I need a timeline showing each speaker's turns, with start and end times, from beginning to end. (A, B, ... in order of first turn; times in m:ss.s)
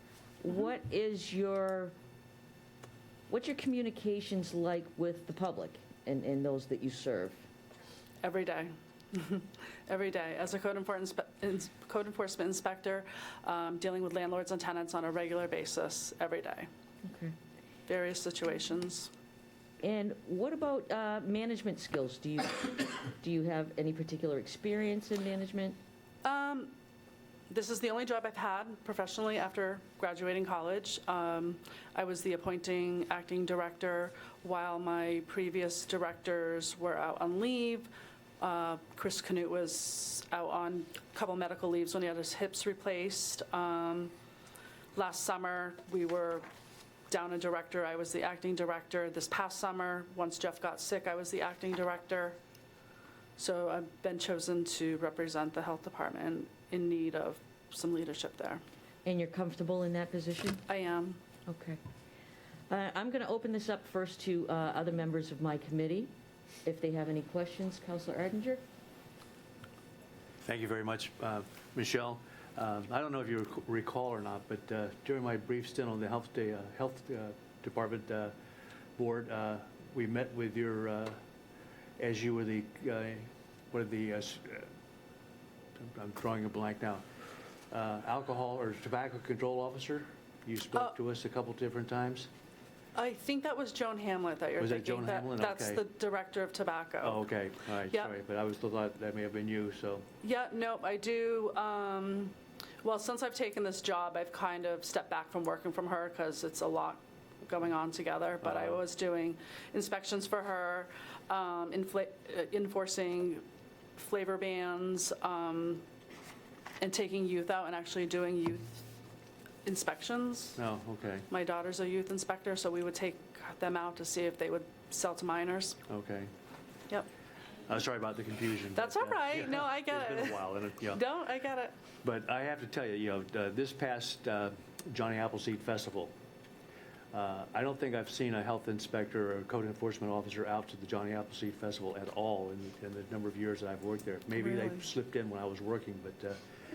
0:00.4-0:01.9 A
0:03.3-0:07.4 A
0:08.2-0:16.7 B
0:17.0-0:17.3 A
0:17.9-0:19.1 B
0:19.8-0:25.8 A
0:26.2-0:26.7 B
0:27.5-0:44.1 B
0:44.9-0:46.5 B
0:47.1-0:52.4 B
0:53.4-0:58.6 B
0:59.0-1:00.6 A
1:00.7-1:01.2 B
1:01.5-1:01.8 A
1:02.7-1:06.1 A
1:06.6-1:08.6 A
1:10.4-1:18.3 C
1:19.0-1:21.2 C
1:22.0-1:24.7 C
1:25.8-1:27.0 C
1:27.7-1:32.3 C
1:33.0-1:37.3 B
1:34.6-1:35.8 C
1:37.0-1:40.1 C
1:37.9-1:38.1 B
1:40.2-1:53.4 B
1:48.4-1:48.8 C
1:54.0-1:55.8 B
1:56.8-1:58.8 B
1:59.6-2:00.6 B
2:00.6-2:01.3 C
2:01.3-2:05.8 B
2:05.9-2:06.3 C
2:07.7-2:11.0 C
2:08.8-2:11.8 B
2:12.0-2:16.1 C
2:17.1-2:26.4 C
2:24.4-2:24.8 B